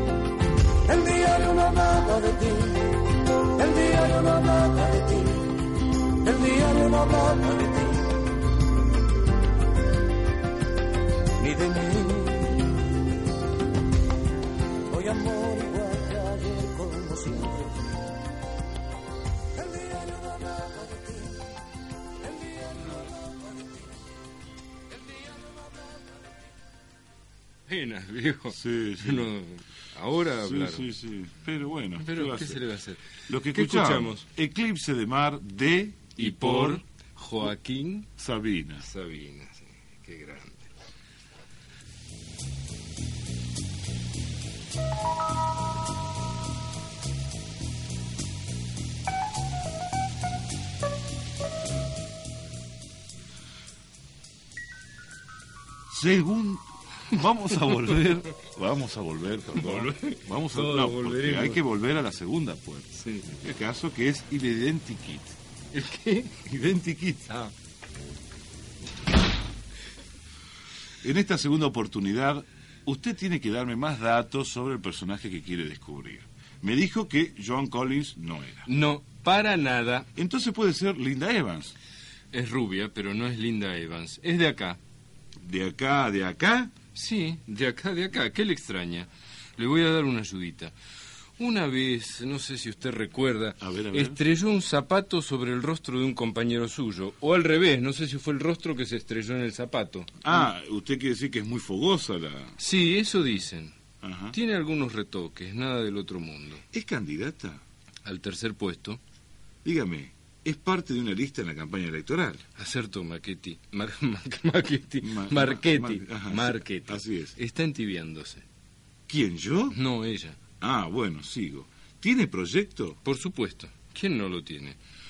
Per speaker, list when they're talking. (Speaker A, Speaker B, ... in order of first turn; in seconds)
Speaker A: 0.8-8.4, 11.4-12.9, 14.9-17.9, 19.5-21.5, 22.2-24.0, 24.9-26.2
Speaker B: 27.7-30.9, 32.0-34.2, 36.2-38.1, 38.8-40.7, 59.5-61.6, 63.0-63.5, 65.7-66.4, 78.7-80.1, 82.3-84.8, 86.9-90.7, 91.4-100.2, 102.6-103.7, 104.3-106.6, 108.0-109.0, 112.6-118.4, 119.7-120.4, 123.0-124.8
Speaker C: 28.5-29.3, 30.3-32.6, 33.3-36.8, 38.2-38.8, 55.9-65.4, 66.4-67.4, 71.0-78.7, 80.1-81.7, 85.4-86.7, 93.6-94.2, 100.2-102.6, 104.0-104.3, 106.7-107.6, 109.6-112.4, 115.0-117.3, 119.1-119.8, 120.6-123.0